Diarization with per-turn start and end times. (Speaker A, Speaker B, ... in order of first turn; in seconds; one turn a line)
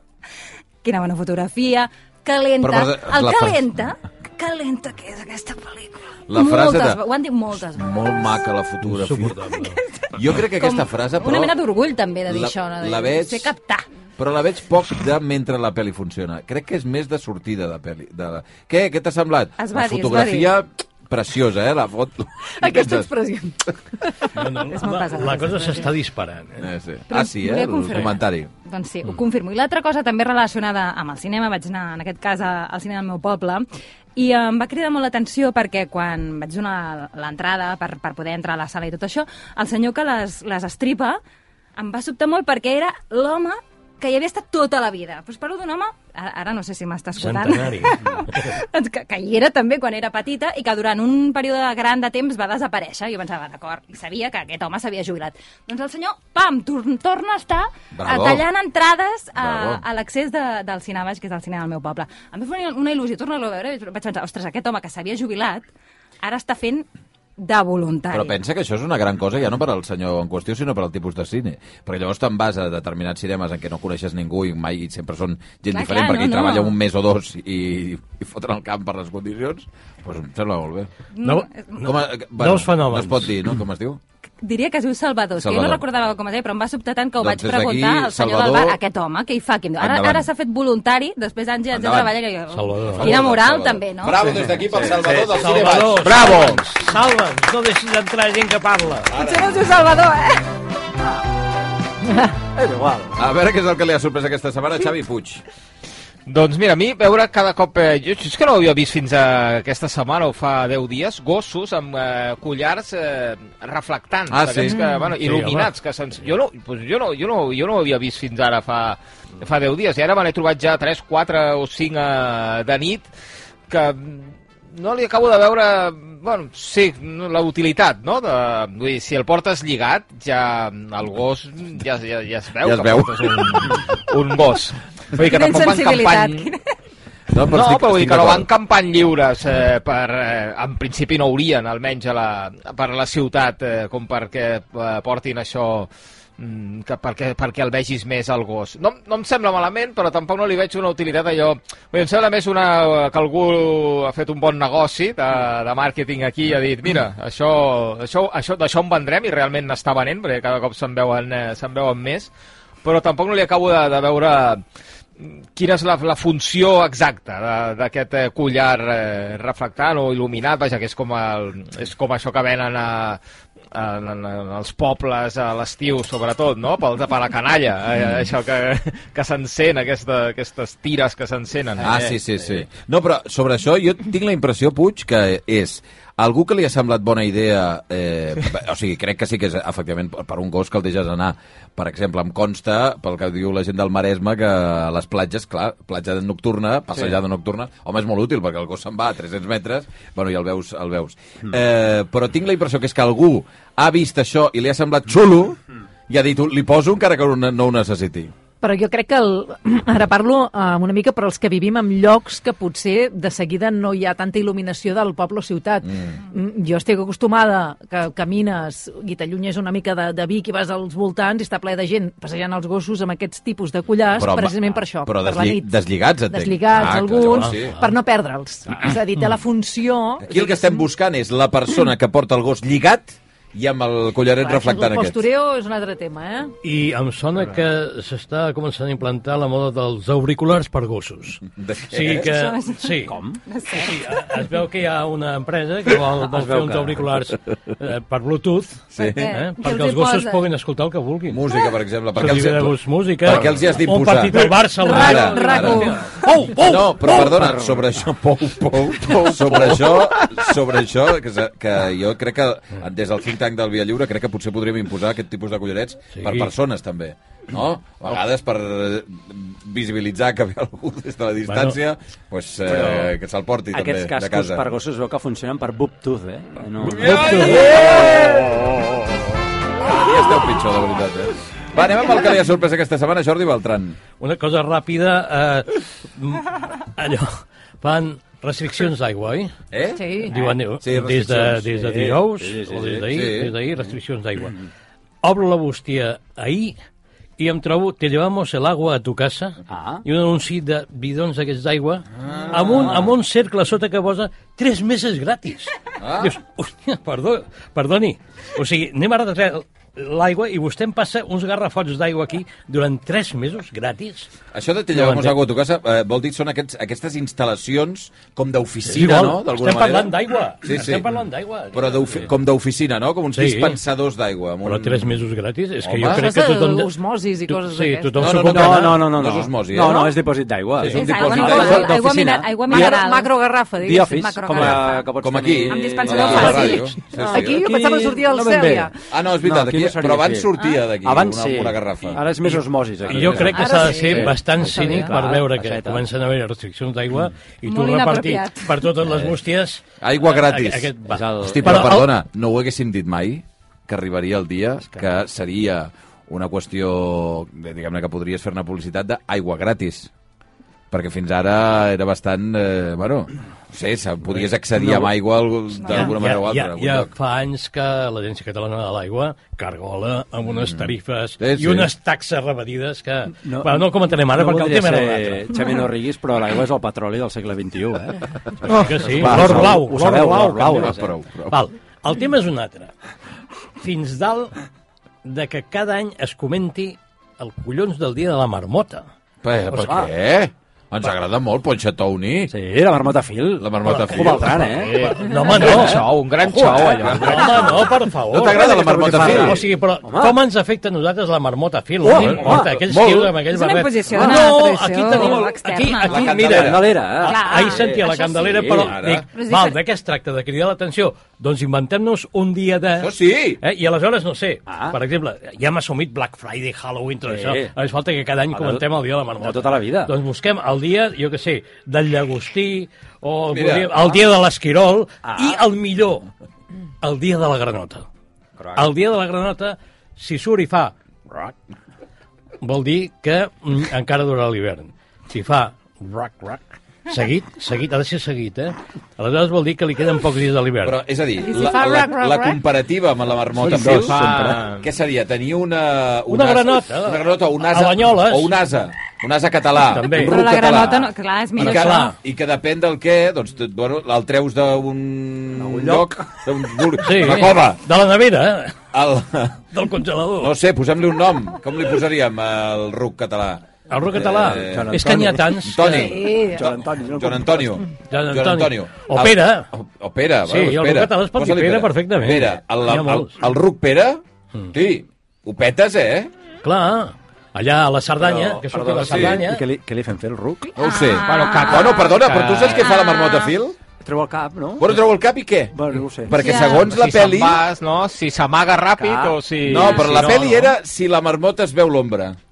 Speaker A: 0.8-8.3
Speaker B: 2.6-3.7
Speaker B: 6.3-7.0
Speaker B: 7.7-9.4
Speaker C: 8.8-9.8
Speaker B: 10.1-11.6
Speaker A: 10.6-13.8
Speaker B: 12.3-13.5
Speaker B: 14.2-23.1
Speaker A: 19.6-20.6
Speaker D: 22.6-24.4
Speaker C: 24.4-26.7
Speaker A: 24.7-25.9
Speaker B: 26.6-28.5
Speaker A: 27.1-41.2
Speaker A: 41.8-65.7
Speaker C: 47.2-48.6
Speaker B: 57.9-58.5
Speaker B: 59.4-59.8
Speaker A: 66.2-66.9
Speaker A: 67.4-68.4
Speaker B: 68.1-80.9
Speaker A: 75.7-76.8
Speaker A: 81.1-81.8
Speaker C: 81.2-83.3
Speaker B: 81.8-84.0
Speaker A: 84.4-94.3
Speaker B: 85.4-85.8
Speaker B: 87.2-88.8
Speaker B: 89.8-90.3
Speaker B: 91.7-92.1
Speaker C: 92.5-93.1
Speaker B: 92.9-96.5
Speaker E: 94.4-95.6
Speaker C: 95.3-99.1
Speaker B: 99.1-99.7
Speaker A: 99.2-100.5
Speaker E: 102.5-103.2
Speaker B: 103.2-105.4
Speaker F: 106.2-123.1
Speaker B: 114.3-114.8
Speaker C: 115.2-115.7
Speaker F: 123.7-136.5
Speaker B: 132.6-133.8
Speaker A: 135.2-136.6
Speaker B: 137.3-138.5
Speaker F: 137.5-162.3
Speaker F: 162.8-164.6
Speaker F: 165.2-173.2
Speaker F: 173.7-182.0
Speaker B: 178.0-178.3
Speaker B: 181.8-208.3
Speaker E: 181.8-182.7
Speaker D: 208.6-225.7
Speaker B: 215.8-216.1
Speaker B: 224.1-227.8
Speaker D: 226.3-230.9
Speaker C: 227.3-227.9
Speaker B: 230.2-235.2
Speaker D: 234.4-236.5
Speaker C: 236.6-243.2
Speaker B: 241.6-242.3
Speaker A: 242.3-244.1
Speaker E: 243.1-243.4
Speaker C: 243.7-251.4
Speaker E: 246.2-247.0
Speaker B: 248.9-249.3
Speaker A: 249.0-250.5
Speaker B: 251.3-255.9
Speaker C: 252.1-257.6
Speaker A: 254.8-256.0
Speaker D: 255.0-255.8
Speaker B: 256.6-274.6
Speaker E: 257.3-257.8
Speaker C: 266.1-266.5
Speaker C: 271.5-271.8
Speaker E: 272.7-273.1
Speaker E: 273.7-278.3
Speaker B: 276.8-278.8
Speaker C: 276.9-277.9
Speaker B: 279.8-284.0
Speaker C: 284.2-289.5
Speaker B: 289.7-290.3
Speaker D: 290.0-290.4
Speaker C: 290.3-294.6
Speaker B: 290.8-291.6
Speaker E: 291.7-293.2
Speaker B: 293.1-293.5
Speaker C: 295.2-296.8
Speaker C: 297.4-314.3
Speaker E: 299.7-300.0
Speaker B: 302.2-303.0
Speaker B: 306.0-306.4
Speaker B: 314.5-321.1
Speaker C: 314.9-315.4
Speaker C: 318.9-322.3
Speaker B: 321.7-325.2
Speaker C: 323.3-323.8
Speaker C: 324.6-326.9
Speaker B: 325.8-326.3
Speaker D: 326.0-328.4
Speaker C: 327.5-329.1
Speaker B: 328.2-330.1
Speaker E: 328.4-333.0
Speaker B: 330.8-332.0
Speaker A: 330.9-333.3
Speaker D: 331.5-331.9
Speaker D: 332.7-334.6
Speaker E: 333.8-346.1
Speaker A: 334.1-335.1
Speaker B: 334.6-337.6
Speaker A: 335.7-336.9
Speaker D: 336.2-338.9
Speaker B: 339.1-342.2
Speaker C: 342.6-352.1
Speaker B: 343.1-343.5
Speaker A: 343.5-345.0
Speaker A: 347.6-348.9
Speaker B: 350.0-360.1
Speaker E: 351.1-352.0
Speaker B: 360.9-367.1
Speaker E: 364.7-365.1
Speaker C: 365.9-375.6
Speaker B: 370.6-371.9
Speaker E: 373.4-381.1
Speaker C: 378.6-380.9
Speaker B: 379.1-379.9
Speaker B: 380.7-381.6
Speaker C: 381.5-382.9
Speaker C: 383.8-384.6
Speaker C: 385.2-389.1
Speaker B: 389.4-392.5
Speaker E: 389.8-390.1
Speaker E: 392.5-395.0
Speaker B: 393.6-394.8
Speaker C: 393.9-426.3
Speaker F: 394.9-397.7
Speaker E: 395.5-396.0
Speaker B: 398.3-399.6
Speaker E: 398.3-400.4
Speaker E: 402.0-403.3
Speaker A: 403.5-406.3
Speaker B: 406.1-406.9
Speaker E: 406.1-409.0
Speaker A: 407.2-409.8
Speaker B: 408.8-409.3
Speaker B: 413.0-413.6
Speaker E: 414.7-415.0
Speaker E: 417.3-417.7
Speaker E: 418.5-418.9
Speaker E: 419.4-420.1
Speaker B: 423.5-424.0
Speaker E: 425.2-425.6
Speaker C: 427.0-428.1
Speaker E: 428.6-428.9
Speaker C: 428.8-430.9
Speaker C: 432.6-441.0
Speaker B: 440.8-457.8
Speaker D: 441.5-442.6
Speaker E: 443.6-444.6
Speaker F: 443.9-444.9
Speaker C: 446.3-448.5
Speaker C: 449.9-450.4
Speaker A: 450.1-452.1
Speaker C: 451.6-452.1
Speaker E: 455.5-456.3
Speaker C: 457.0-458.8
Speaker B: 458.9-459.6
Speaker C: 459.7-460.5
Speaker B: 460.4-476.3
Speaker C: 463.9-466.2
Speaker E: 464.4-467.9
Speaker D: 465.9-466.7
Speaker C: 468.1-469.7
Speaker C: 470.5-473.3
Speaker C: 476.6-479.6
Speaker E: 478.2-480.8
Speaker B: 479.0-479.4
Speaker B: 480.8-483.8
Speaker A: 480.8-482.2
Speaker F: 481.2-482.9
Speaker A: 482.7-483.5
Speaker E: 484.0-485.0
Speaker B: 484.8-487.6
Speaker E: 485.7-486.4
Speaker A: 486.4-486.9
Speaker F: 486.5-490.7
Speaker E: 489.0-490.5
Speaker B: 489.6-492.4